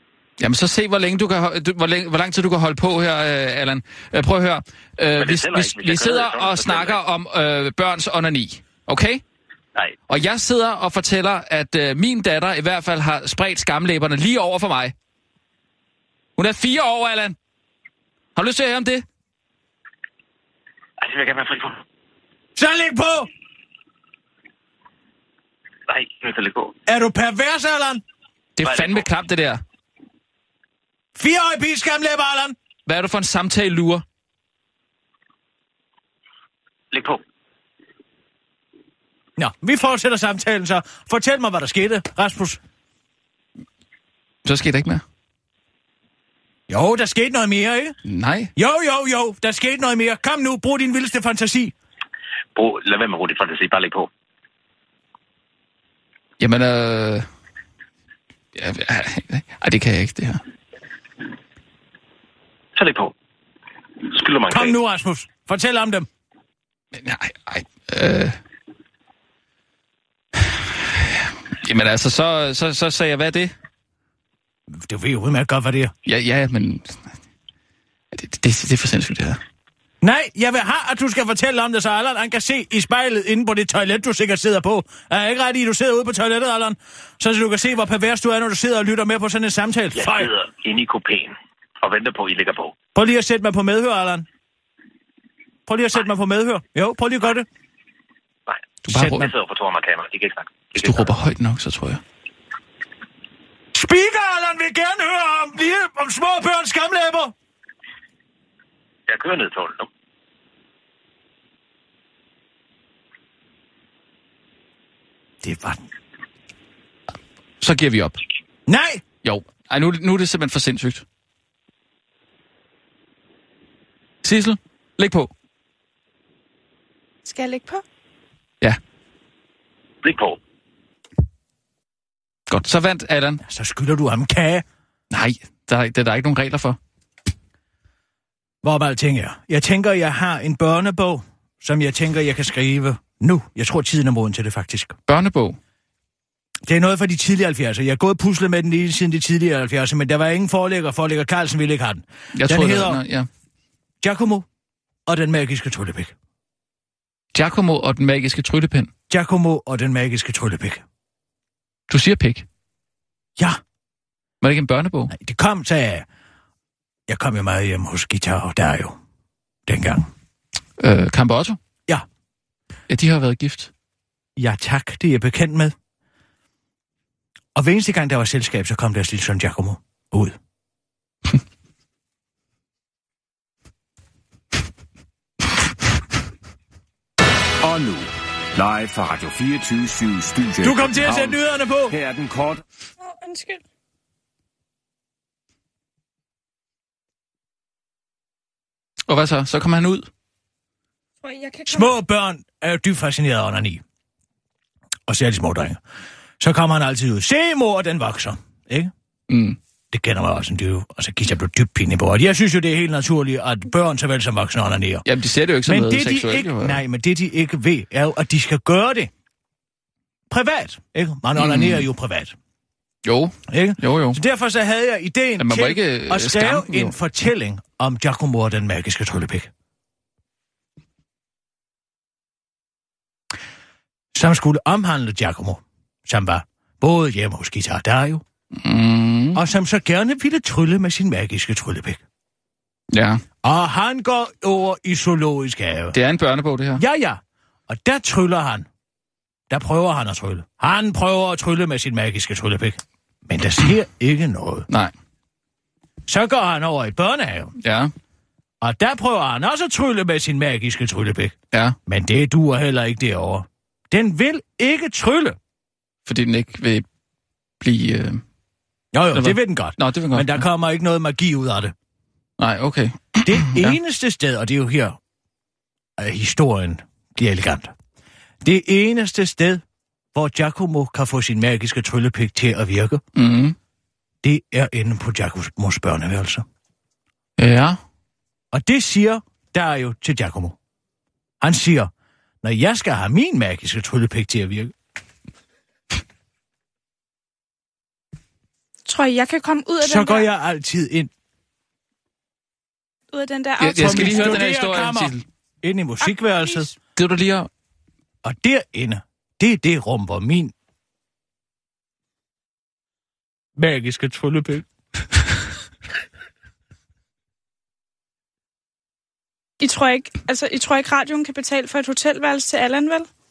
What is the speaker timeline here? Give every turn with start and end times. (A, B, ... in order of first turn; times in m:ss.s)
0:00.4-0:09.2 A
0:05.2-0:07.0 B
0:10.1-0:14.9 A
0:16.4-0:17.4 A
0:18.3-0:19.0 A
0:21.0-0:21.8 B
0:22.6-0:23.3 C
0:25.9-0:26.7 B
0:26.9-0:28.0 C
0:28.6-0:29.6 A
0:28.6-0:29.0 B
0:31.2-0:32.6 C
0:32.8-0:34.0 A
0:36.9-0:37.2 B
0:39.4-0:42.6 C
0:44.4-0:45.0 A
0:46.7-0:48.0 C
0:48.1-0:48.5 A
0:48.6-0:51.7 C
0:52.5-0:54.1 B
0:56.4-0:57.3 A
0:58.5-1:00.4 A
1:02.8-1:03.1 B
1:04.1-1:04.8 B
1:04.5-1:06.1 C
1:06.9-1:08.4 A
1:10.4-1:13.5 A
1:14.7-1:15.9 C
1:16.0-1:17.0 A
1:18.1-1:19.4 A
1:20.0-1:30.3 C
1:29.9-1:32.8 B
1:32.9-1:34.3 C
1:35.7-1:37.5 C
1:38.5-1:41.1 B
1:38.9-1:39.3 A
1:38.9-1:39.2 C
1:40.8-1:42.0 A
1:43.7-1:47.3 C
1:49.1-1:49.9 B
1:55.4-1:55.8 C
1:57.6-1:58.2 A
1:58.6-1:59.0 C
1:59.2-2:01.0 A
2:04.2-2:05.3 A
2:07.2-2:07.8 D
2:10.0-2:10.4 B
2:12.5-2:13.4 A
2:13.4-2:14.6 C
2:15.1-2:16.8 A
2:18.6-2:25.0 C
2:25.1-2:25.6 A
2:26.7-2:33.0 C
2:32.4-2:33.3 A
2:34.0-2:34.4 C
2:35.0-2:36.1 C
2:37.3-2:38.9 A
2:39.1-2:40.8 C
2:41.9-2:42.4 A
2:44.4-2:45.1 A
2:45.1-2:46.0 C
2:47.1-2:49.0 C
2:49.7-2:50.1 C
2:50.8-2:51.6 A
2:52.9-2:53.7 A
2:54.4-2:55.7 C
2:57.5-3:00.3 C
3:07.6-3:12.6 E
3:10.6-3:12.0 C
3:13.0-3:13.6 D
3:19.1-3:20.1 A
3:21.2-3:22.0 D
3:21.7-3:23.8 C
3:25.1-3:25.8 C
3:26.4-3:28.9 C
3:29.3-3:29.6 A
3:29.9-3:35.0 C
3:35.0-3:36.8 A
3:35.6-3:39.1 C
3:40.3-3:42.3 C
3:41.4-3:41.9 A
3:43.0-3:44.2 A
3:43.5-3:49.5 C
3:45.4-3:46.9 A
3:54.1-3:58.2 C
3:58.5-3:59.4 A
3:59.3-4:02.0 C
4:02.9-4:03.2 A
4:03.4-4:06.0 C
4:05.9-4:06.8 A
4:06.8-4:08.7 C
4:09.5-4:14.6 C
4:16.1-4:17.5 C
4:17.6-4:17.9 A
4:18.6-4:21.3 C
4:21.8-4:25.4 C
4:26.0-4:26.8 A
4:27.6-4:28.2 A
4:28.9-4:31.7 C
4:29.1-4:30.4 A
4:32.4-4:33.8 A
4:33.2-4:35.0 C
4:36.0-4:37.7 C
4:38.4-4:39.6 C
4:40.1-4:43.0 C
4:43.1-4:43.6 A
4:44.2-4:46.4 C
4:47.4-4:47.8 A
4:48.5-4:50.6 C
4:51.4-4:51.9 C
4:52.4-4:54.7 C
4:58.8-5:00.3 D
4:59.8-5:01.1 C
5:03.1-5:04.5 D
5:03.6-5:05.2 A
5:03.8-5:06.7 C
5:06.0-5:06.7 D
5:07.0-5:07.5 A
5:08.2-5:10.5 C
5:13.6-5:14.6 C
5:19.6-5:23.1 D